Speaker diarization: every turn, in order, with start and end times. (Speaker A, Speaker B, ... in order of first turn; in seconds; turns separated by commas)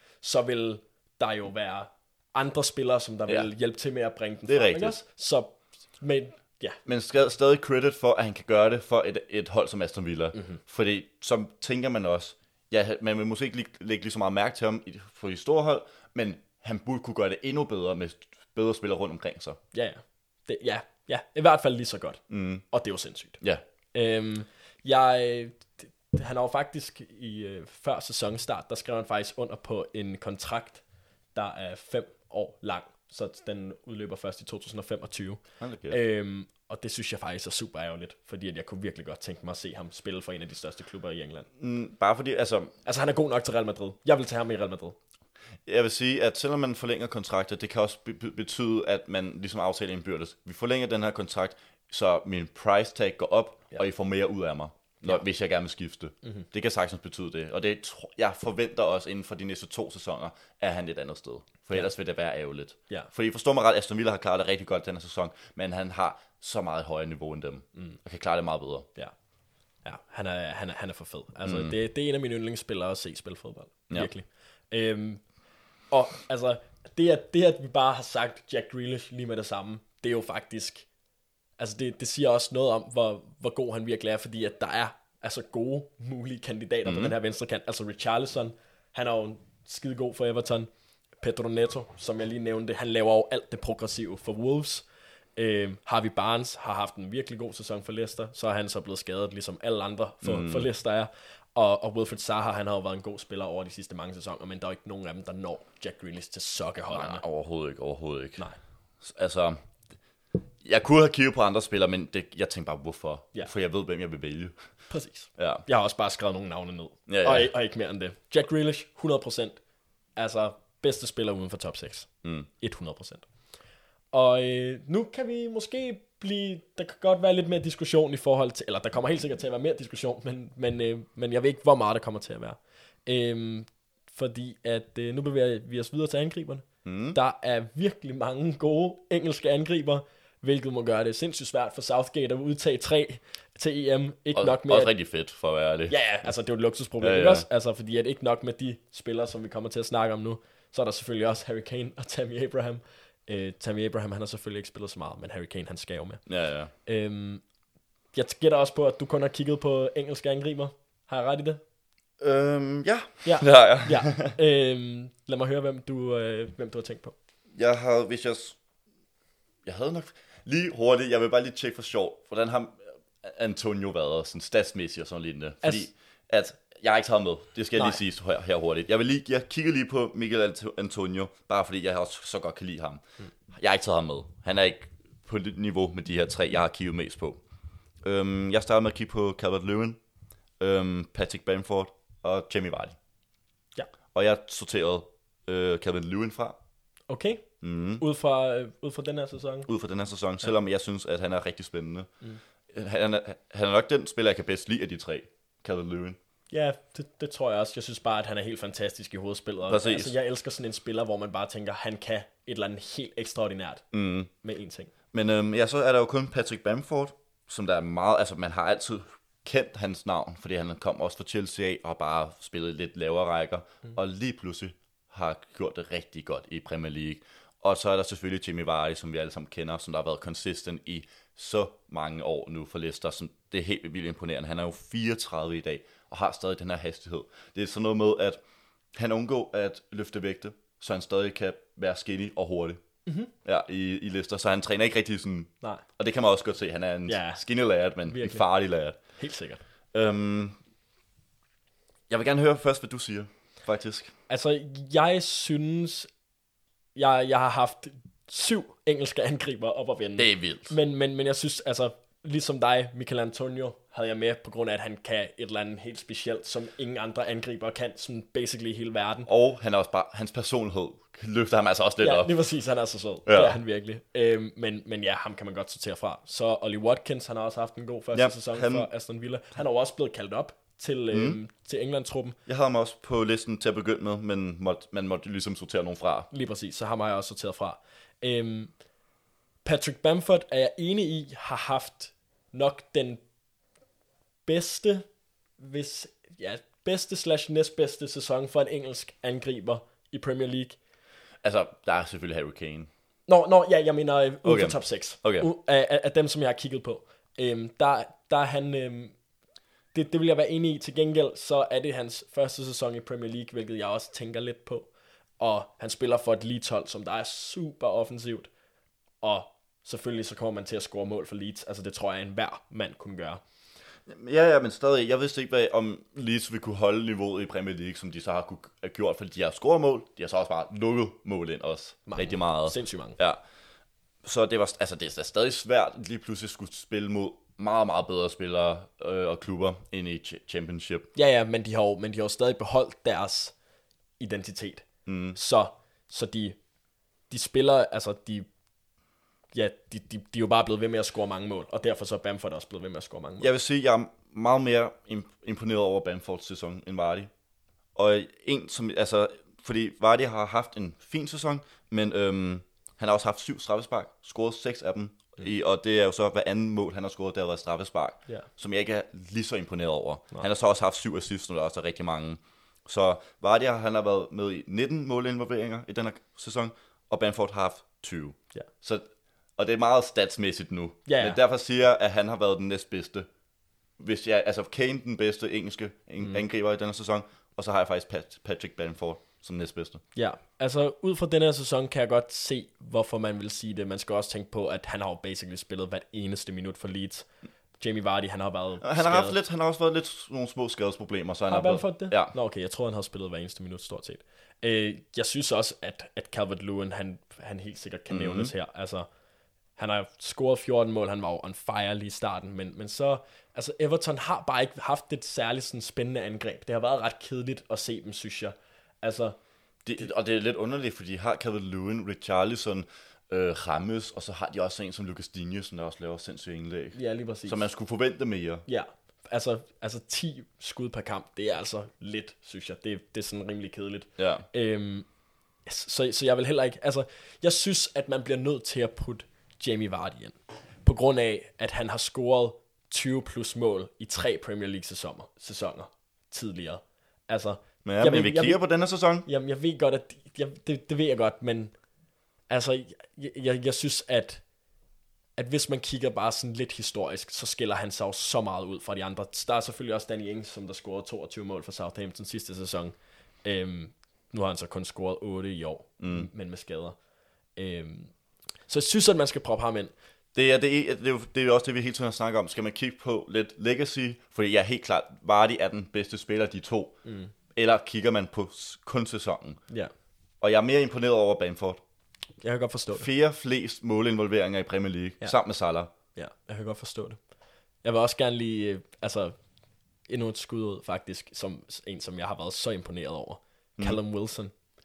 Speaker A: 0.2-6.8, Speaker B: 4.5-5.0, Speaker B: 6.8-19.6, Speaker A: 10.3-10.6, Speaker A: 19.7-23.4, Speaker B: 22.3-22.6, Speaker A: 23.9-30.8, Speaker A: 31.3-41.5, Speaker B: 35.6-36.0, Speaker B: 41.6-42.7, Speaker A: 42.8-45.0, Speaker B: 45.6-68.9, Speaker A: 69.8-75.2, Speaker B: 71.4-71.8, Speaker A: 75.9-80.9, Speaker A: 81.6-90.7, Speaker B: 86.8-87.1, Speaker A: 91.2-94.8, Speaker A: 95.4-107.2, Speaker B: 100.2-100.7, Speaker B: 106.9-108.4, Speaker B: 109.0-109.6, Speaker B: 110.6-114.5, Speaker A: 114.9-119.6, Speaker B: 115.4-115.6, Speaker B: 117.1-117.5, Speaker A: 120.2-123.3, Speaker A: 124.1-144.9, Speaker B: 136.8-137.2, Speaker B: 144.3-146.3, Speaker A: 145.9-156.2, Speaker B: 147.0-147.4, Speaker B: 156.2-156.7, Speaker A: 156.8-157.4, Speaker A: 158.1-161.6, Speaker B: 162.2-164.4, Speaker A: 163.2-167.2, Speaker B: 167.5-168.6, Speaker B: 169.6-187.4, Speaker A: 175.6-175.9, Speaker B: 188.0-190.0, Speaker B: 190.6-193.0, Speaker B: 194.1-196.6, Speaker A: 197.1-199.7, Speaker B: 197.6-198.0, Speaker B: 199.7-202.1, Speaker B: 202.7-206.2, Speaker A: 206.5-213.9, Speaker B: 209.7-210.1, Speaker B: 213.9-214.3, Speaker A: 214.4-214.9, Speaker B: 215.1-238.4, Speaker B: 238.9-242.8, Speaker A: 243.1-243.3, Speaker B: 243.4-249.0, Speaker A: 247.1-247.4, Speaker A: 248.1-248.4, Speaker A: 249.1-249.6, Speaker B: 249.9-250.6, Speaker B: 252.1-254.1, Speaker A: 254.3-256.1, Speaker A: 256.9-269.3, Speaker B: 260.2-260.7, Speaker B: 269.3-272.3, Speaker A: 272.0-282.4, Speaker B: 273.2-273.6, Speaker B: 278.1-278.9, Speaker B: 281.1-281.4, Speaker B: 282.4-286.3, Speaker A: 286.3-288.7, Speaker A: 289.6-293.2, Speaker A: 294.4-300.8, Speaker B: 301.4-302.9, Speaker A: 303.3-309.1, Speaker B: 304.4-305.5, Speaker A: 309.9-318.5, Speaker A: 319.2-323.4, Speaker B: 324.1-333.4, Speaker A: 332.1-333.2, Speaker B: 334.2-341.1, Speaker A: 341.1-343.5, Speaker A: 344.2-346.6, Speaker B: 345.1-345.4, Speaker A: 347.3-348.5, Speaker A: 349.5-353.5, Speaker B: 353.4-357.3, Speaker B: 357.9-383.3, Speaker A: 381.1-381.4, Speaker B: 384.0-390.0, Speaker A: 390.1-399.4, Speaker B: 398.8-402.3, Speaker A: 401.5-409.1, Speaker B: 408.1-408.5, Speaker A: 409.8-419.4, Speaker B: 419.8-428.6, Speaker A: 426.9-427.6, Speaker A: 428.7-435.1, Speaker B: 434.2-434.4, Speaker A: 435.6-448.6, Speaker B: 447.8-449.2, Speaker A: 449.2-451.8, Speaker A: 452.5-454.4, Speaker A: 455.4-467.0, Speaker B: 466.0-466.3, Speaker A: 467.6-468.1, Speaker A: 468.7-469.9, Speaker B: 470.3-479.6, Speaker A: 477.0-477.3, Speaker B: 480.4-481.8, Speaker A: 482.4-483.1, Speaker B: 482.9-485.9, Speaker A: 486.1-487.2, Speaker A: 487.8-489.4, Speaker A: 490.1-494.5